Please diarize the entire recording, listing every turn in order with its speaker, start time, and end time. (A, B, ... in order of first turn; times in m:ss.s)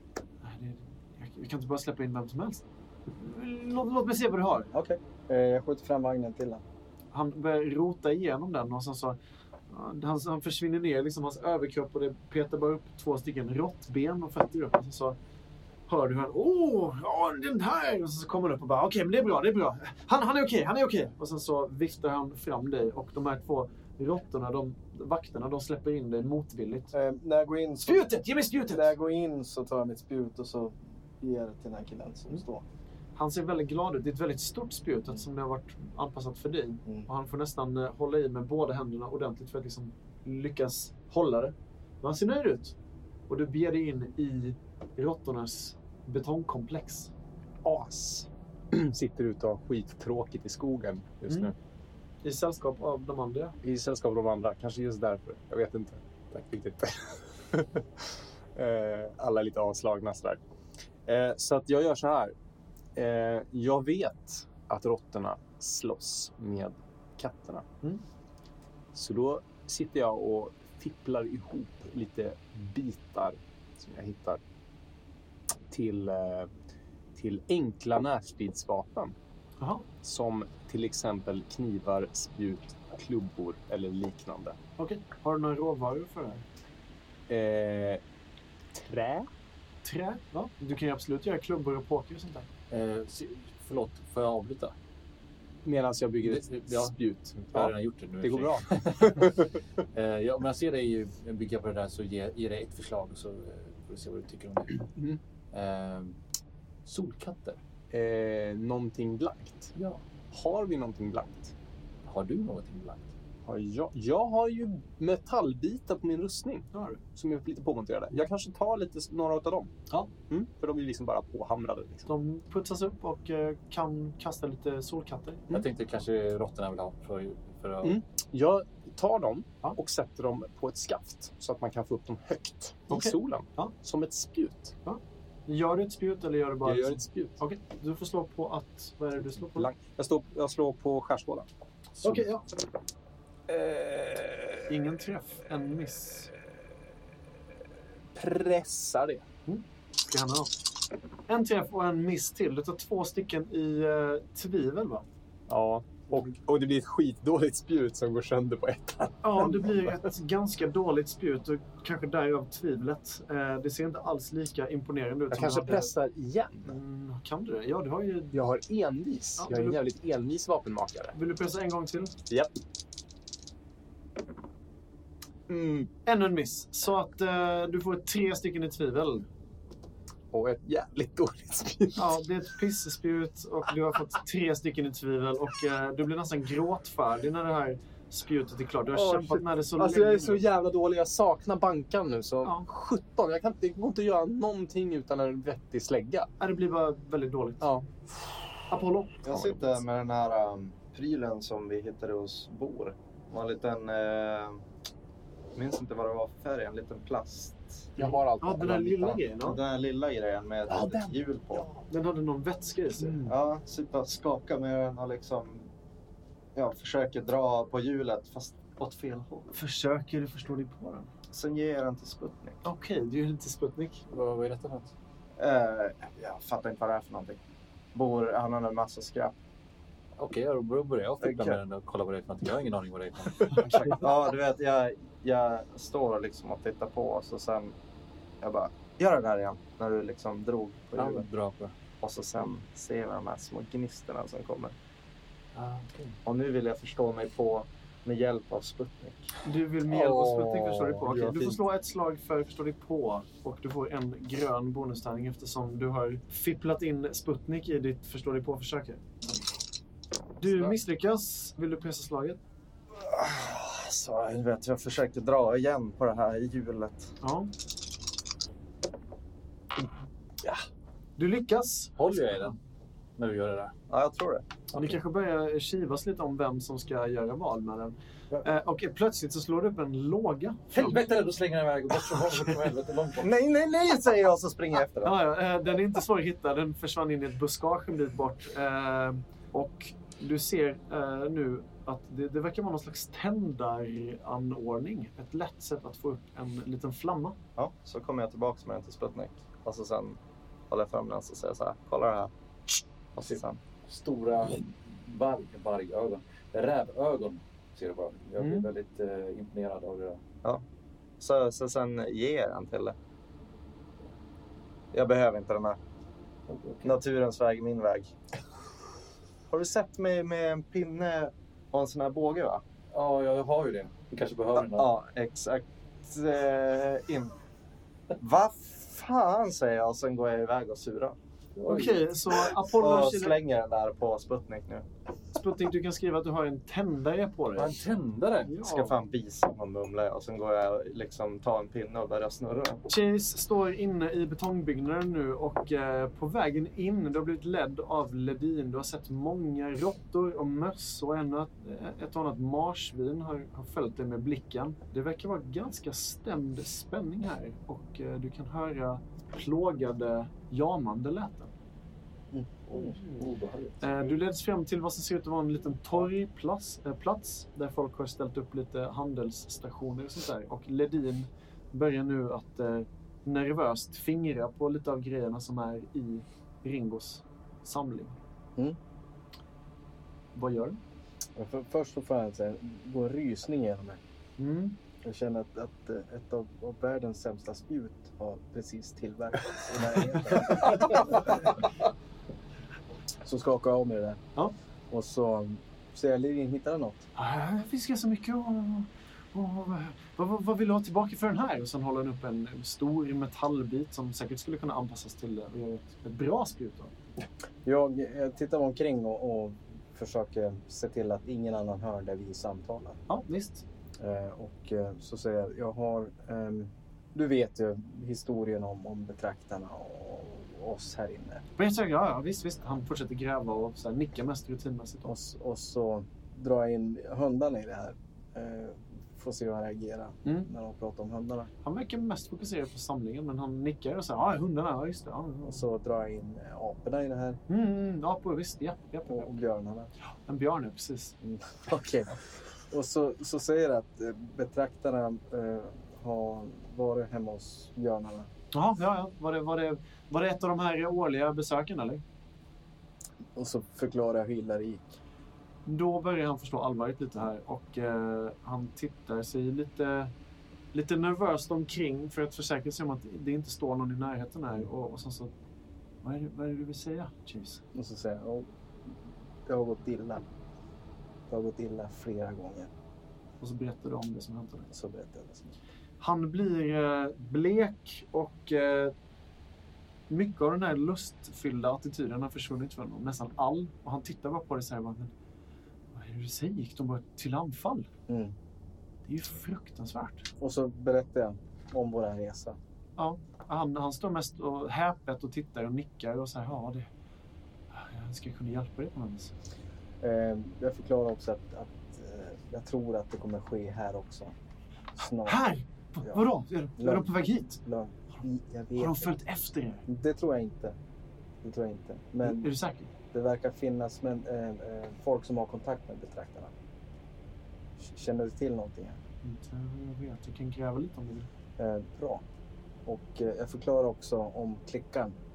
0:00.4-0:04.7 A
0:04.7-0:06.6 B
0:07.1-0:09.2 A
0:09.7-0:15.2 A
0:15.9-0:26.9 A
0:26.9-0:32.6 B
0:27.8-0:28.9 A
0:33.1-0:42.7 A
0:43.3-0:47.1 A
0:47.6-0:51.5 C
0:51.3-0:51.5 A
0:52.2-0:53.6 A
0:53.6-1:00.4 C
1:01.0-1:02.3 C
1:02.9-1:07.6 C
1:08.9-1:14.4 C
1:15.7-1:16.5 C
1:17.1-1:19.1 C
1:19.6-1:19.8 A
1:20.0-1:24.6 C
1:24.8-1:26.4 A
1:27.3-1:28.0 C
1:28.7-1:29.3 C
1:29.8-1:32.5 A
1:32.7-1:34.7 D
1:35.6-1:39.6 C
1:36.2-1:36.9 D
1:37.5-1:44.9 D
1:44.9-1:45.2 C
1:45.5-1:46.2 D
1:46.8-1:47.6 D
1:47.9-1:51.5 C
1:52.0-1:53.1 D
1:53.4-1:59.7 C
1:56.7-1:57.0 A
2:00.3-2:02.1 C
2:02.1-2:05.5 A
2:05.5-2:08.0 D
2:07.8-2:14.7 C
2:12.9-2:13.7 A
2:14.8-2:19.7 A
2:16.6-2:17.4 C
2:19.5-2:21.5 C
2:22.0-2:22.4 A
2:23.5-2:24.7 C
2:24.7-2:26.3 A
2:28.1-2:29.2 C
2:29.5-2:30.7 A
2:31.3-2:35.0 A
2:35.5-2:40.1 C
2:39.2-2:45.9 A
2:45.3-2:46.8 C
2:46.6-2:48.4 A
2:48.3-2:51.1 C
2:49.4-2:49.8 A
2:51.1-2:52.1 A
2:55.5-2:55.9 C
2:56.0-2:59.3 A
3:00.3-3:02.2 C
3:01.9-3:10.4 A
3:08.9-3:16.3 C
3:16.4-3:17.7 A
3:17.6-3:18.7 C
3:18.7-3:19.2 A
3:19.2-3:24.6 E
3:19.3-3:19.7 C
3:25.5-3:27.9 E
3:28.0-3:29.3 C
3:28.0-3:29.6 A
3:29.4-3:31.7 E
3:31.9-3:33.3 A
3:33.2-3:35.7 E
3:36.5-3:39.5 E
3:39.5-3:41.1 A
3:41.3-3:42.6 E
3:42.6-3:44.0 A
3:44.1-3:44.9 D
3:45.4-3:47.4 E
3:47.9-3:49.4 E
3:50.2-3:54.0 D
3:51.2-3:51.6 E
3:53.6-3:57.7 E
3:58.4-4:01.2 E
4:01.0-4:01.7 D
4:02.0-4:04.7 E
4:05.5-4:06.2 D
4:06.2-4:09.3 E
4:09.4-4:19.4 A
4:09.9-4:11.6 C
4:20.4-4:22.4 A
4:23.0-4:27.1 E
4:27.2-4:27.5 A
4:31.2-4:32.0 A
4:32.0-4:32.6 D
4:33.2-4:33.7 D
4:33.9-4:34.5 E
4:34.7-4:41.0 A
4:40.7-4:43.3 D
4:43.2-4:45.2 E
4:45.0-4:57.4 A
4:57.6-5:03.6 E
5:03.3-5:10.2 D
5:08.4-5:08.7 A
5:11.2-5:13.0 E
5:14.9-5:15.8 E
5:16.5-5:16.9 D
5:16.8-5:18.1 E
5:19.5-5:22.6 E
5:22.9-5:24.9 D
5:24.5-5:27.3 E
5:28.2-5:31.2 E
5:31.6-5:32.0 D
5:31.7-5:33.4 A
5:32.6-5:34.9 E
5:35.3-5:37.8 A
5:37.6-5:38.6 D
5:38.4-5:39.0 A
5:38.6-5:42.8 E
5:42.9-6:01.5 A
6:02.3-6:02.9 B
6:02.7-6:04.0 D
6:03.8-6:18.2 A
6:20.3-6:20.8 A
6:21.4-6:24.0 B
6:24.4-6:24.8 A
6:25.0-6:31.6 B
6:33.2-6:34.2 B
6:34.9-6:37.1 B
6:37.2-6:46.9 A
6:47.6-6:53.0 B
6:53.1-6:53.6 A
6:54.0-7:01.4 B
7:01.6-7:05.1 A
7:05.0-7:11.5 B
7:11.6-7:15.6 A
7:15.4-7:17.4 B
7:17.5-7:19.4 A
7:19.1-7:19.9 B
7:20.3-7:21.1 A
7:21.2-7:28.3 B
7:28.5-7:32.0 A
7:33.3-7:35.0 B
7:35.6-7:40.1 A
7:40.7-7:45.3 A
7:46.0-7:47.6 A
7:47.7-7:50.2 B
7:51.3-7:52.7 B
7:53.4-7:54.7 A
7:54.7-7:55.6 B
7:56.0-7:58.9 A
8:00.1-8:05.1 A
8:05.9-8:07.9 A
8:08.1-8:08.3 B
8:09.0-8:10.2 A
8:10.4-8:12.6 B
8:13.0-8:16.9 A
8:17.7-8:19.3 A
8:20.0-8:24.4 B
8:25.0-8:25.4 B
8:25.2-8:27.6 A
8:26.8-8:29.1 B
8:28.8-8:29.8 A
8:29.9-8:30.8 B
8:31.4-8:32.5 B
8:32.2-8:32.9 A
8:33.1-8:36.5 B
8:37.8-8:39.0 B
8:39.2-8:41.3 A
8:41.6-8:42.2 B
8:42.8-8:45.2 B